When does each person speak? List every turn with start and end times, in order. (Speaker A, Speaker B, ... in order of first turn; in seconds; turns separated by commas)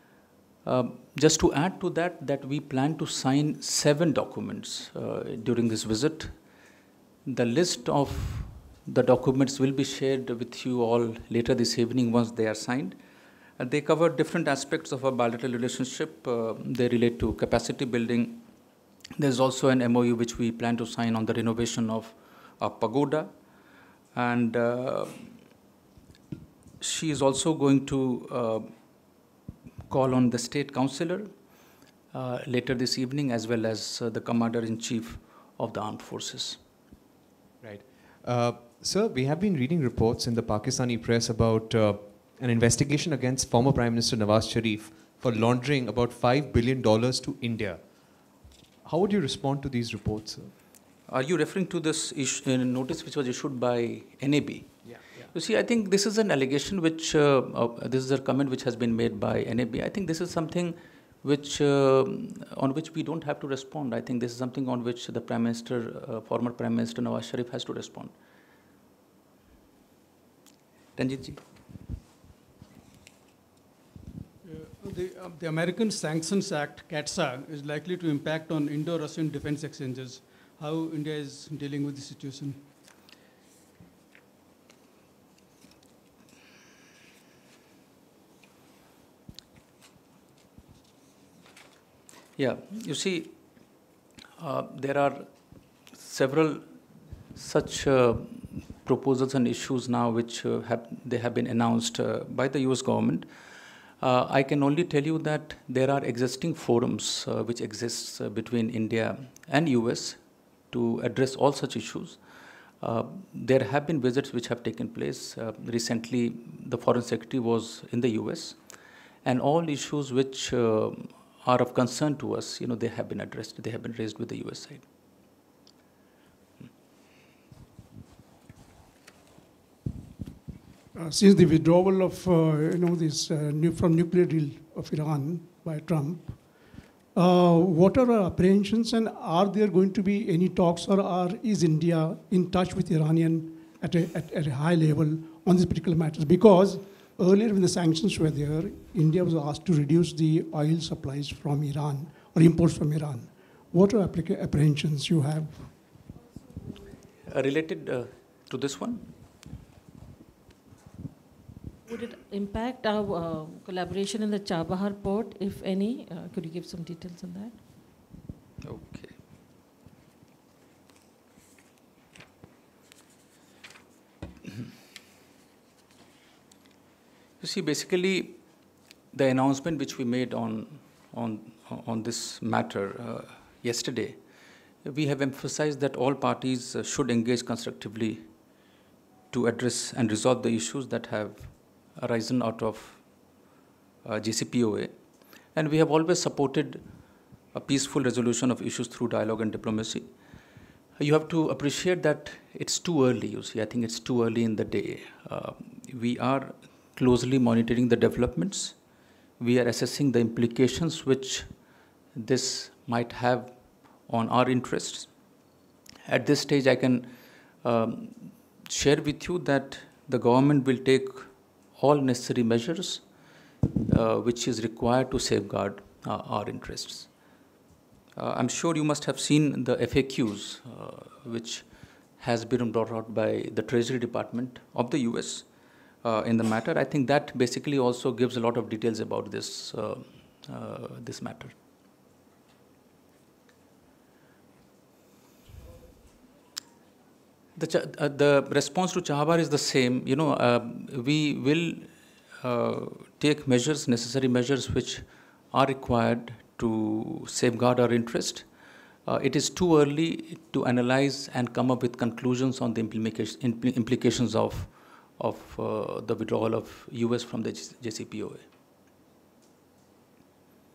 Speaker A: 0.6-6.3, Speaker A: 7.2-13.0, Speaker A: 13.6-18.4, Speaker A: 19.2-23.3, Speaker A: 24.1-25.3, Speaker A: 26.8-28.7, Speaker A: 29.9-31.4, Speaker A: 32.1-36.6, Speaker B: 37.6-47.8, Speaker B: 48.8-50.5, Speaker A: 51.1-68.1, Speaker B: 54.9-55.2, Speaker A: 71.0-71.4, Speaker C: 74.5-82.5, Speaker A: 92.4-93.4, Speaker A: 94.4-95.3, Speaker A: 95.9-96.7, Speaker A: 97.3-103.3, Speaker A: 104.0-112.2, Speaker A: 112.8-118.6, Speaker A: 119.2-124.9, Speaker D: 130.9-136.6, Speaker D: 137.1-155.7, Speaker A: 157.2-159.1, Speaker E: 161.8-167.6, Speaker A: 168.6-169.1, Speaker A: 177.4-178.4, Speaker A: 179.1-184.2, Speaker A: 184.8-188.3, Speaker A: 189.3-193.0, Speaker A: 194.0-194.9, Speaker A: 195.5-196.8, Speaker A: 197.5-200.1, Speaker A: 201.0-208.8, Speaker A: 209.4-211.5, Speaker A: 212.1-215.1, Speaker A: 216.1-217.1, Speaker A: 217.6-223.1, Speaker A: 223.9-227.1, Speaker A: 228.2-235.5, Speaker A: 236.0-241.5, Speaker A: 247.6-258.5, Speaker A: 259.1-268.4